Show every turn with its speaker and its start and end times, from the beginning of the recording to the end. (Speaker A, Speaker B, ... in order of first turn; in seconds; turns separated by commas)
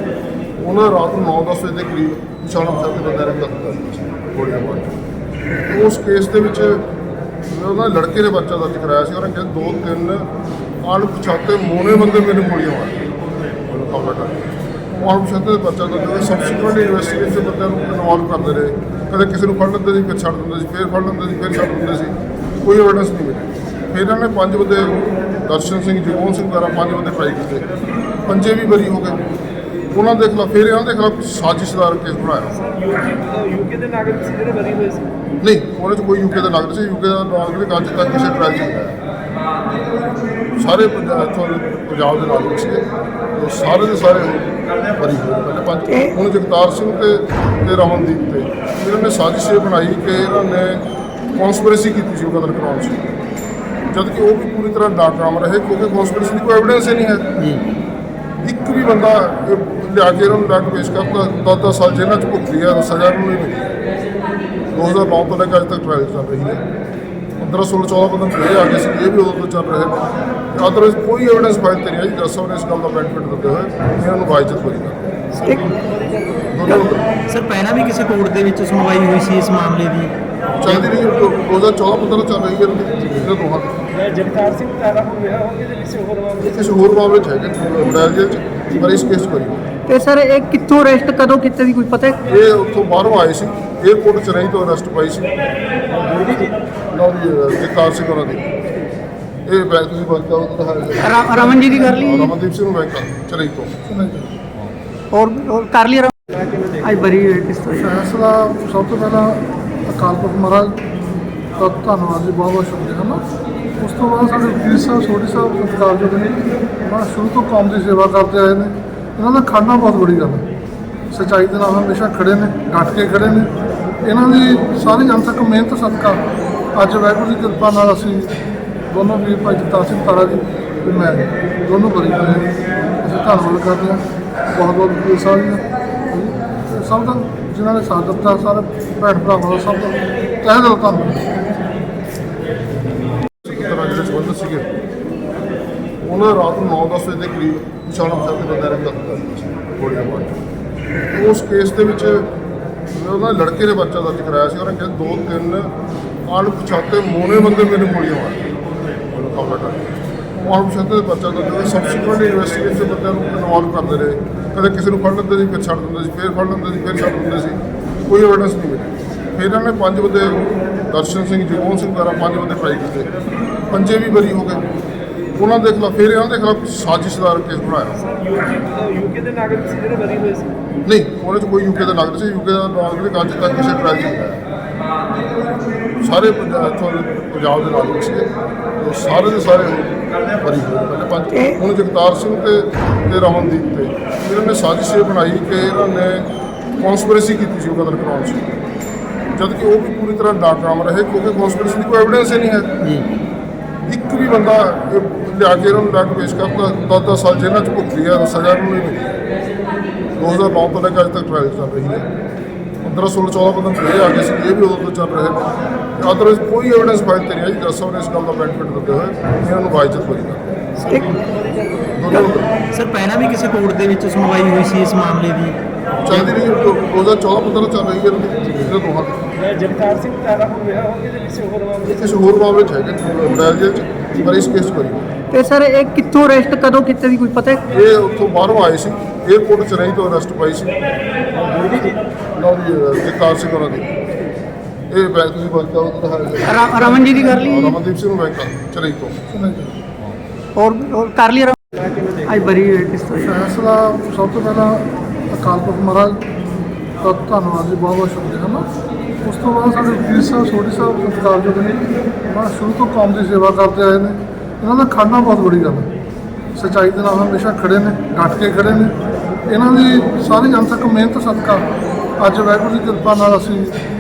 Speaker A: 0.6-5.0, Speaker A: 5.7-6.8, Speaker A: 7.5-10.3, Speaker A: 10.8-13.1, Speaker A: 13.7-14.4, Speaker A: 14.9-27.7, Speaker A: 28.2-29.2, Speaker A: 29.9-32.5, Speaker B: 32.7-35.0, Speaker A: 35.4-39.0, Speaker A: 40.5-53.0, Speaker C: 45.9-46.1, Speaker A: 53.9-57.3, Speaker D: 57.4-57.6, Speaker A: 58.4-63.6, Speaker A: 64.7-66.6, Speaker A: 67.4-75.0, Speaker C: 75.5-75.7, Speaker B: 75.8-76.1, Speaker A: 76.5-77.1, Speaker D: 77.3-80.1, Speaker A: 80.6-83.9, Speaker B: 84.0-86.3, Speaker A: 86.4-89.6, Speaker C: 89.9-92.2, Speaker A: 92.3-95.3, Speaker A: 96.9-98.5, Speaker A: 99.5-103.7, Speaker C: 101.0-102.3, Speaker E: 103.9-104.3, Speaker C: 105.1-106.1, Speaker C: 106.8-107.8, Speaker E: 107.7-113.2, Speaker E: 113.8-120.5, Speaker E: 121.1-126.2, Speaker E: 126.7-128.4, Speaker E: 128.9-141.3, Speaker A: 143.4-144.7, Speaker A: 146.0-150.3, Speaker A: 151.1-152.3, Speaker A: 152.9-155.7, Speaker A: 156.3-158.5, Speaker A: 159.1-159.8, Speaker A: 160.4-173.1, Speaker A: 173.7-174.6, Speaker A: 175.3-178.0, Speaker B: 178.2-180.5, Speaker A: 180.8-184.4, Speaker A: 186.0-198.4, Speaker C: 191.3-191.6, Speaker A: 199.3-202.7, Speaker D: 202.8-203.1, Speaker A: 203.9-209.1, Speaker A: 210.2-212.1, Speaker A: 212.8-220.5, Speaker B: 220.9-221.6, Speaker A: 221.9-222.5, Speaker D: 222.7-225.6, Speaker A: 226.0-229.2, Speaker B: 229.4-231.8, Speaker A: 231.8-235.1, Speaker C: 235.3-237.6, Speaker A: 237.7-240.8, Speaker A: 242.3-243.9, Speaker A: 244.9-249.2, Speaker C: 246.4-247.8, Speaker E: 249.3-249.8, Speaker C: 250.6-253.3, Speaker E: 253.2-258.6, Speaker E: 259.2-265.9, Speaker E: 266.6-268.9, Speaker E: 269.5-271.7, Speaker E: 272.2-273.8